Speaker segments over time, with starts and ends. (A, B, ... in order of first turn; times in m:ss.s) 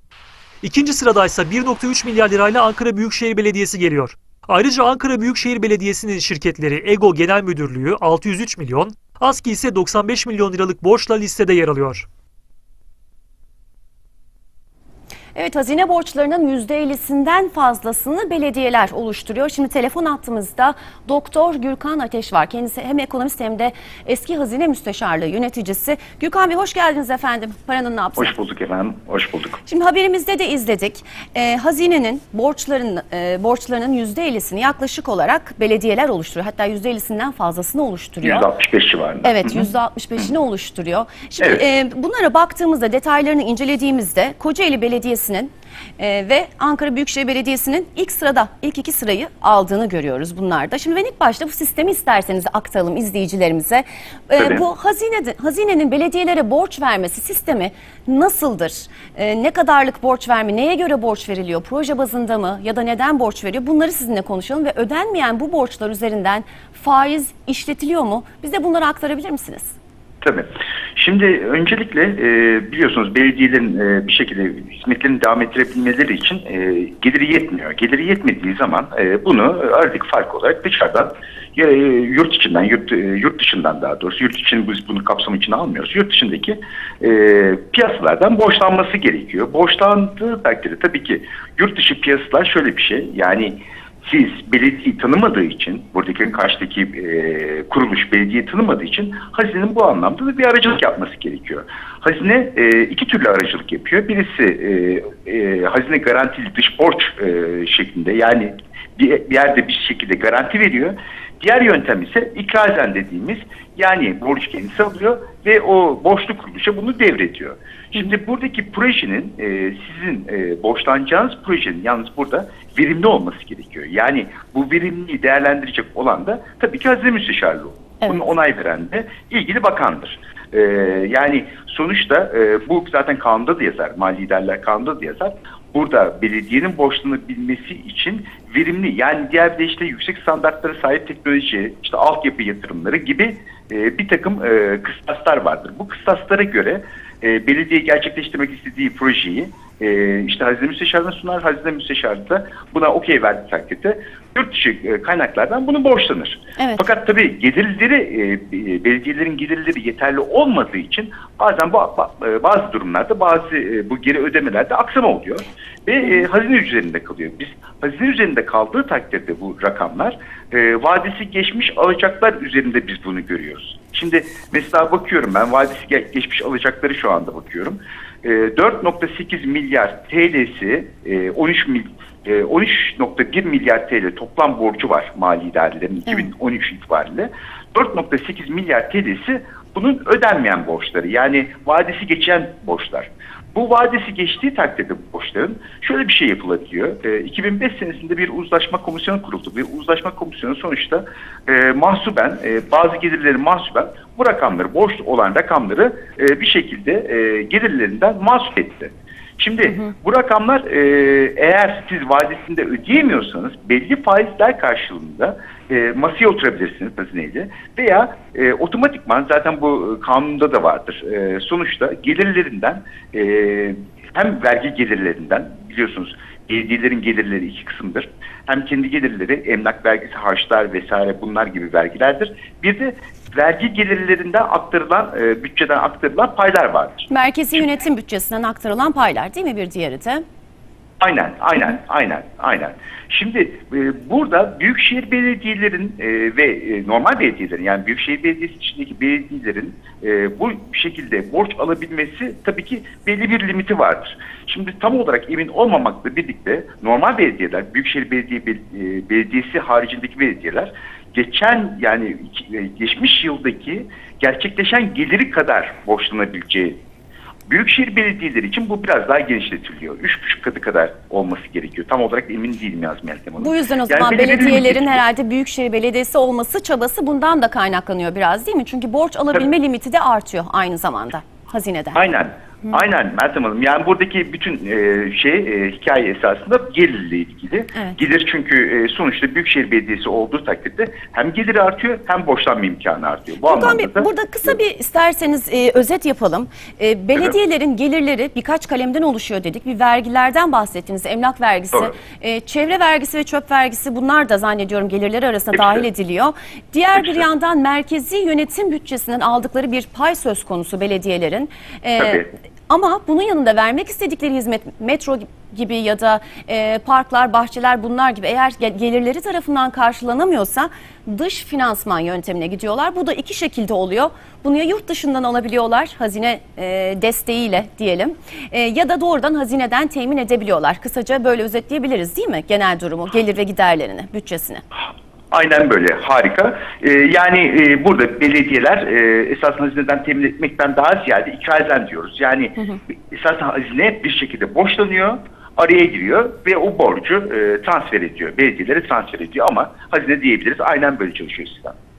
0:00.6-0:12.1 A
0:15.3-0:28.3 B
0:28.2-0:29.6 C
0:29.7-0:38.5 B
0:38.2-0:39.6 C
0:39.2-1:09.7 B
0:54.4-0:54.6 C
1:10.2-3:57.1 C
2:36.6-2:36.8 B
3:57.1-4:00.2 B
4:01.0-4:26.8 C
4:27.5-4:35.0 C
4:33.4-4:42.0 B
4:41.9-4:54.5 C
4:53.4-5:34.6 B
5:05.5-5:05.8 C
5:07.0-5:07.2 C
5:12.0-5:12.3 C
5:35.3-5:42.6 C
5:43.1-5:51.7 C